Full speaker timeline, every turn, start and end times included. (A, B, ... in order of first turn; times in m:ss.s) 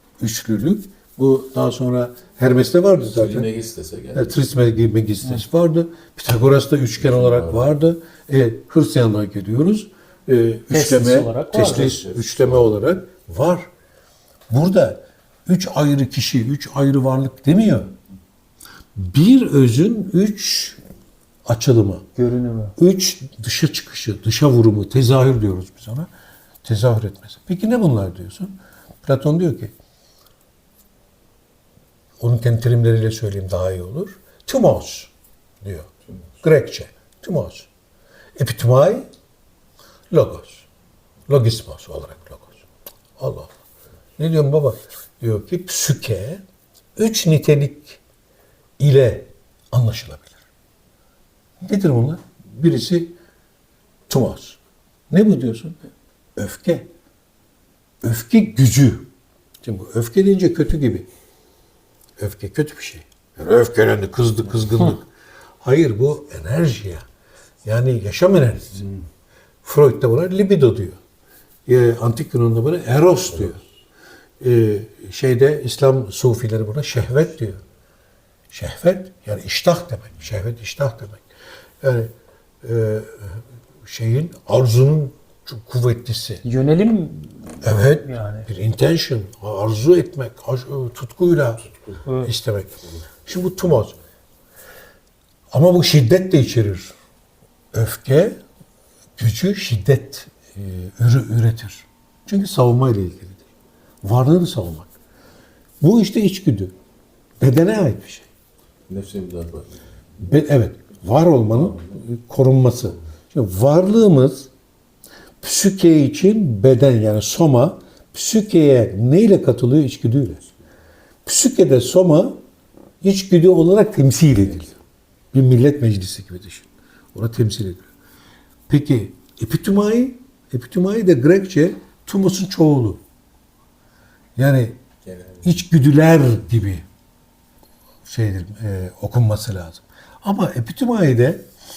0:00.2-0:03.5 A
0:03.1-0:04.4 B
0:04.1-0:13.7 A
0:07.0-0:07.7 B
0:10.7-0:12.0 C
0:11.9-0:12.6 B
0:14.5-0:17.9 A
0:19.0-0:20.8 A
0:21.4-0:22.0 A
0:22.2-0:22.7 C
0:22.8-0:26.1 A
0:26.6-0:29.7 A
0:32.2-0:35.1 A
0:35.6-0:35.9 A
0:36.4-0:37.7 A
0:38.4-0:39.1 A
0:40.1-0:40.6 A
0:41.3-0:42.6 A
0:43.2-0:43.5 A
0:44.2-0:46.4 A
0:47.0-0:48.0 A
0:48.8-0:50.4 A
0:51.6-0:53.1 A
0:54.1-0:54.6 A
0:55.1-0:55.8 A
0:56.4-0:56.9 A
0:58.0-0:59.1 A
0:59.6-1:01.0 A
1:02.2-1:05.0 A
1:05.6-1:07.0 A
1:07.6-1:08.8 A
1:09.6-1:11.0 A
1:11.6-1:13.6 A
1:14.4-1:17.6 A
1:18.5-1:21.2 A
1:21.8-1:22.1 A
1:22.6-1:26.4 A
1:26.4-1:28.5 C
1:27.6-1:34.0 A
1:32.0-1:32.3 C
1:35.5-1:36.9 A
1:37.7-1:38.4 A
1:39.2-1:43.4 A
1:44.0-1:44.9 A
1:45.8-1:46.7 A
1:47.4-1:48.3 A
1:48.9-1:49.8 B
1:50.2-1:54.5 A
1:55.4-2:00.4 A
2:01.2-2:02.4 A
2:03.0-2:04.8 A
2:05.3-2:07.9 A
2:08.7-2:13.0 A
2:14.4-2:14.8 A
2:15.0-2:15.4 B
2:15.4-2:16.8 A
2:18.0-2:21.4 A